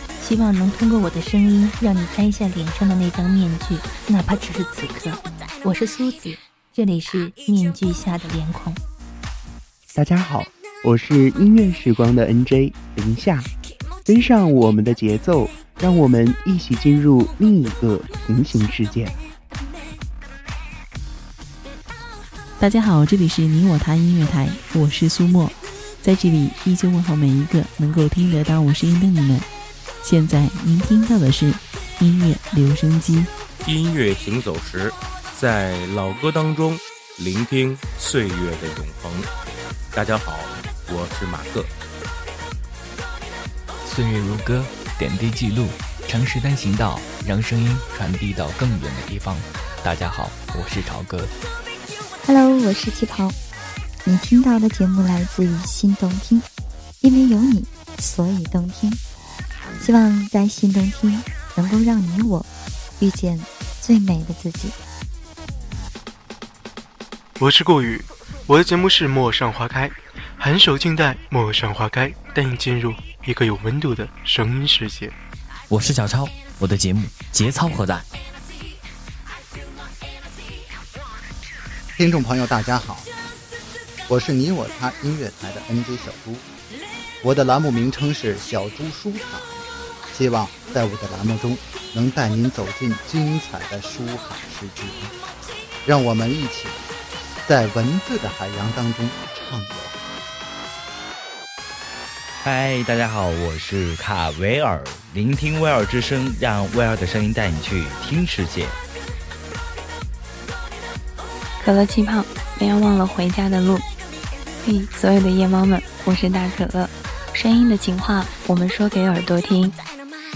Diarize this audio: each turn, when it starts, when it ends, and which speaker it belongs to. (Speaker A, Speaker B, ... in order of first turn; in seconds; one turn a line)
Speaker A: 0.2-8.8
Speaker B: 9.9-13.5
Speaker B: 14.1-19.2
Speaker C: 22.6-29.5
Speaker C: 30.0-33.3
Speaker D: 33.6-39.3
Speaker D: 39.9-41.7
Speaker E: 43.8-51.3
Speaker F: 52.2-53.4
Speaker F: 54.0-56.5
Speaker F: 57.0-59.0
Speaker F: 59.8-62.5
Speaker F: 63.0-64.8
Speaker G: 67.4-75.1
Speaker E: 75.7-78.1
Speaker H: 82.0-83.1
Speaker H: 84.1-86.4
Speaker H: 87.2-95.1
Speaker H: 95.9-96.9
Speaker H: 97.5-100.0
Speaker I: 102.4-108.8
Speaker J: 111.6-113.8
Speaker J: 114.6-119.8